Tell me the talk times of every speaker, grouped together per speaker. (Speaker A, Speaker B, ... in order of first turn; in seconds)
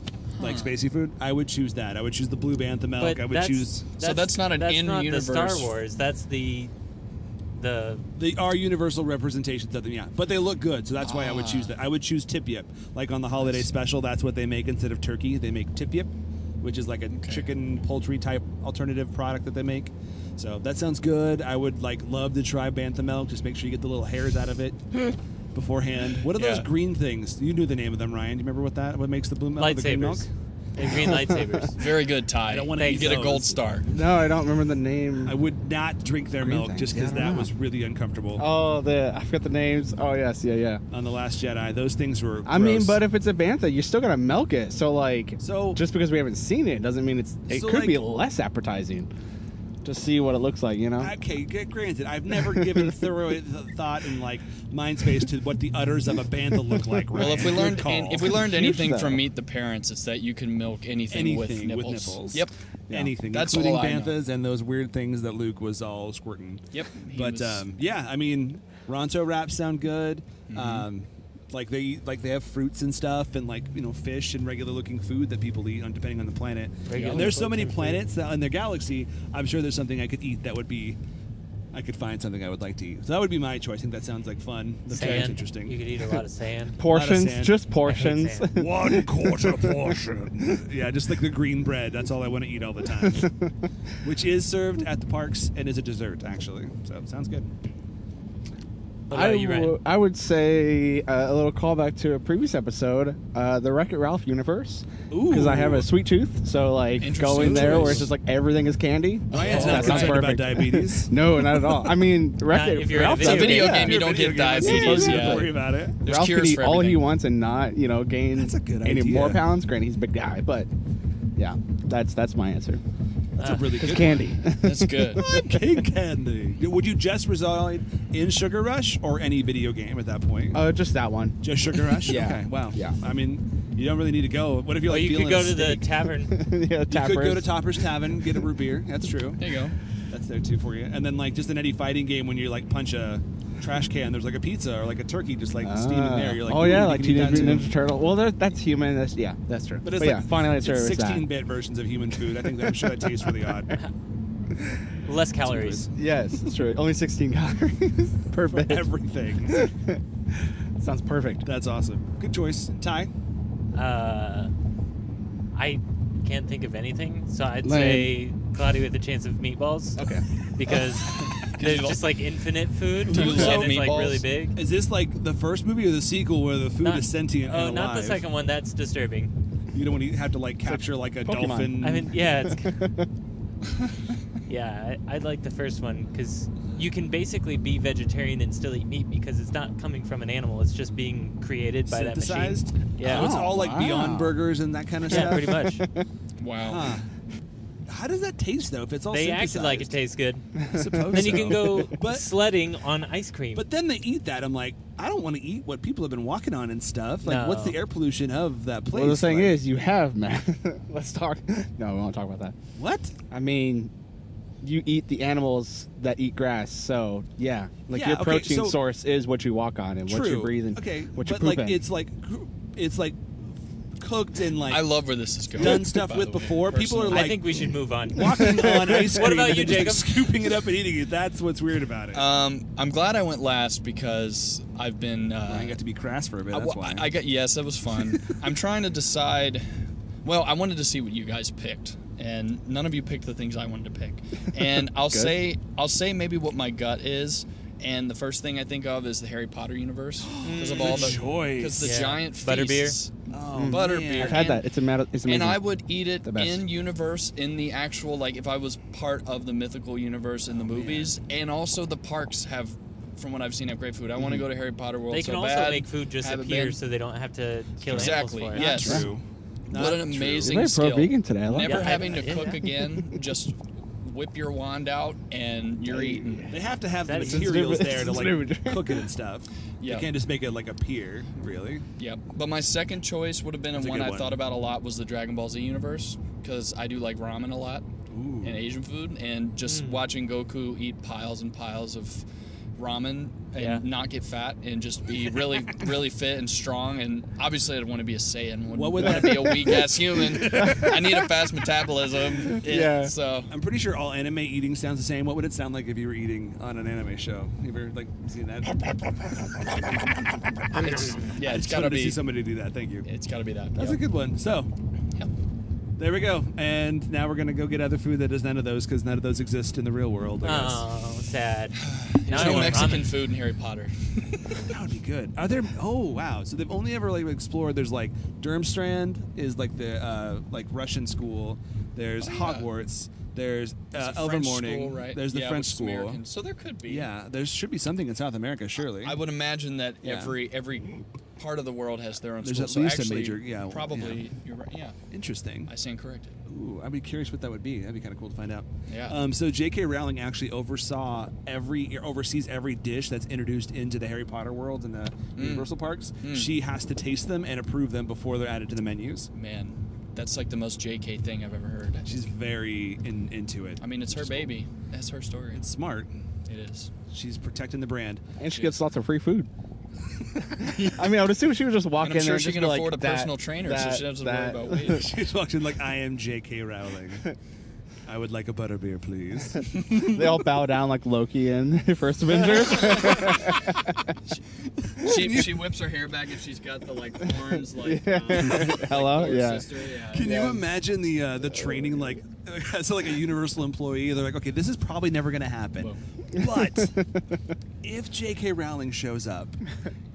Speaker A: 0.3-0.7, 4.0-5.7, 11.0-11.8, 13.4-13.7, 17.1-17.5, 26.1-26.7, 31.8-33.9, 57.1-62.5, 63.2-64.2, 66.7-67.7, 70.5-70.9, 76.9-77.3, 84.9-85.3, 107.0-108.1, 109.3-110.3, 113.1-117.1, 124.6-125.3, 139.4-139.8, 171.5-172.2, 173.1-174.2, 196.4-197.0, 224.7-227.3, 232.1-235.8, 236.5-239.7, 240.2-254.6, 255.2-266.8, 267.9-269.1, 269.7-276.5, 279.8-280.1, 282.0-287.9, 288.4-292.2, 292.8-303.5, 310.7-312.2, 313.0-314.0, 321.8-324.7, 332.2-332.7, 333.9-337.1, 339.0-345.0, 345.6-346.4, 348.9-349.1, 355.4-356.5, 359.3-362.1, 363.8-365.6, 366.4-366.9, 370.7-371.0, 372.0-375.1, 382.4-383.6, 384.3-390.6
Speaker B: 0.4-3.8, 8.2-24.8, 25.5-30.3, 32.5-33.6, 35.2-38.4, 40.9-43.0, 45.4-45.8, 47.5-48.0, 51.0-58.4, 61.1-81.0, 81.7-85.8, 86.8-87.6, 88.5-93.2, 94.0-97.5, 105.1-105.9, 107.4-108.1, 109.3-111.1, 113.2-116.0, 118.3-119.4, 123.3-124.3, 125.2-130.6, 131.4-135.8, 136.9-139.4, 140.1-147.7, 149.8-153.7, 155.4-155.9, 158.4-159.7, 161.4-163.1, 173.1-173.6, 174.5-178.2, 179.7-182.1, 191.9-195.5, 196.6-197.1, 197.9-199.9, 200.7-202.3, 203.5-209.6, 212.8-213.1, 217.9-218.8, 220.1-223.2, 224.0-225.0, 225.5-227.4, 228.1-232.2, 235.5-237.1, 250.2-252.0, 253.3-254.4, 260.7-261.1, 267.9-270.6, 276.5-281.9, 283.8-284.4, 288.1-288.6, 298.7-301.2, 303.5-310.0, 310.7-313.1, 313.8-314.7, 316.0-320.9, 322.3-323.1, 324.6-336.2, 336.9-339.1, 340.0-340.3, 342.4-344.2, 345.1-345.7, 346.5-359.3, 362.1-364.5, 365.5-366.2, 367.1-368.2, 374.9-377.3, 378.1-380.2, 385.0-385.5, 390.1-397.0, 397.8-399.6
Speaker C: 3.0-6.7, 7.6-8.0, 29.6-31.9, 32.8-33.2, 76.8-78.0, 84.9-86.8, 87.8-88.5, 99.1-99.8, 112.5-113.7, 123.4-123.7, 134.9-136.3, 155.0-155.9, 163.7-164.5, 165.5-170.0, 170.6-174.6, 176.8-179.3, 181.8-182.8, 184.5-193.4, 195.1-195.8, 199.1-200.4, 201.1-203.6, 207.2-207.8, 227.1-230.3, 250.5-251.2, 251.8-252.9, 265.1-268.9, 271.6-272.7, 277.0-277.7, 289.6-290.0, 293.6-293.8, 320.4-323.1
Speaker D: 30.8-31.7, 33.9-35.4, 36.4-37.5, 38.4-40.8, 42.5-49.1, 49.8-51.1, 52.5-52.9, 58.3-59.3, 86.8-89.9, 93.0-93.5, 99.1-120.7, 121.3-122.8, 123.7-125.7, 130.5-132.9, 136.3-137.9, 145.6-151.3, 152.3-153.6, 155.9-158.8, 159.5-161.4, 167.6-168.1, 170.0-170.8, 180.6-183.1, 193.1-194.4, 195.1-196.0, 200.6-201.8, 208.9-212.6, 213.3-213.9, 214.6-221.8, 253.5-255.6, 256.2-256.6, 264.2-264.4, 270.4-272.1, 275.9-276.6, 277.1-279.0, 302.5-303.1, 368.4-369.5, 370.6-375.0, 380.0-384.1, 387.5-389.8, 396.4-397.1